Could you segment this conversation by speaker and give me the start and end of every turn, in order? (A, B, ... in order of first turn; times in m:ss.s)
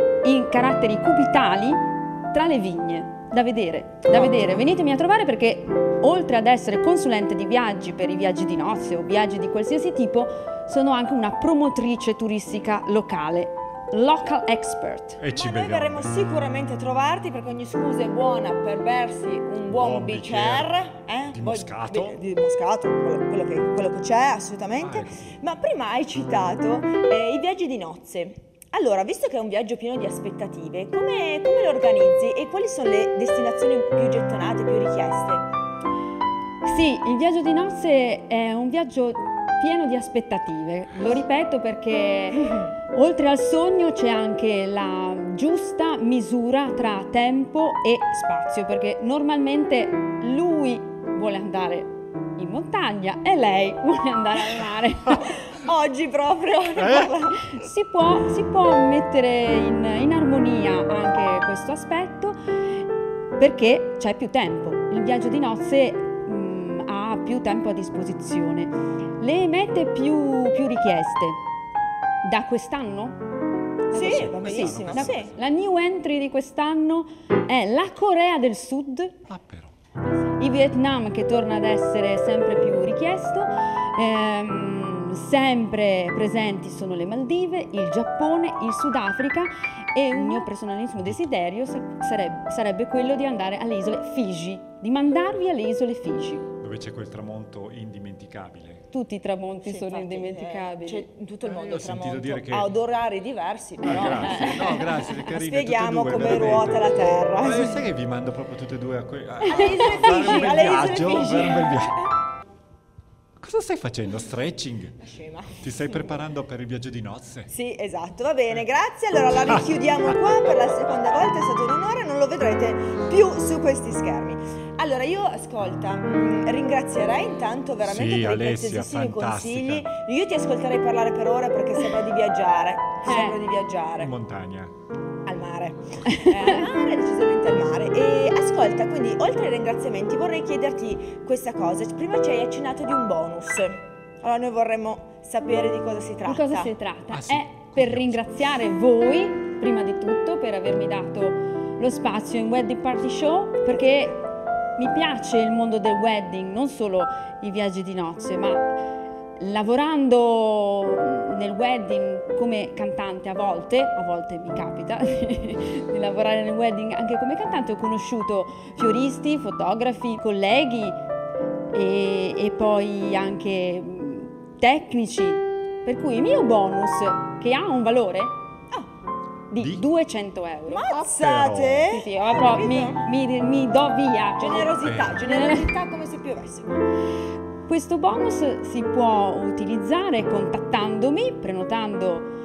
0:00.2-0:15.2 A
0:04.1-0:04.6 B
0:15.2-0:16.1 C
0:15.3-0:35.4 B
0:19.7-0:22.2 C
0:24.8-0:25.4 C
0:36.6-0:55.4 A
0:55.1-0:57.5 B
0:56.8-0:57.2 C
0:57.4-1:02.4 A
1:03.4-1:11.4 A
1:12.2-1:13.2 A
1:13.9-1:19.2 A
1:13.9-1:15.3 B
1:13.9-1:15.4 C
1:19.3-1:19.7 C
1:20.4-1:36.5 A
1:30.2-1:30.4 B
1:36.6-1:38.8 C
1:38.9-1:41.1 A
1:39.6-1:47.8 B
1:41.4-1:42.7 C
1:43.8-1:52.0 C
1:44.0-1:44.9 A
1:49.4-1:52.0 B
1:49.6-1:50.3 A
1:53.4-1:55.0 C
1:55.0-1:56.1 B
1:55.6-1:57.5 C
1:57.5-2:14.1 B
2:07.8-2:09.9 C
2:13.0-2:13.4 A
2:14.0-2:14.7 C
2:15.2-2:26.7 B
2:16.1-2:16.5 A
2:26.2-2:34.2 A
2:27.1-2:28.3 C
2:34.8-2:38.7 A
2:39.4-2:51.0 A
2:51.7-2:58.3 A
2:59.5-3:00.9 A
2:59.6-2:59.8 C
3:00.7-3:03.0 B
3:00.9-3:02.0 C
3:01.9-3:05.7 A
3:04.4-3:06.8 B
3:04.8-3:05.2 C
3:07.6-3:12.3 A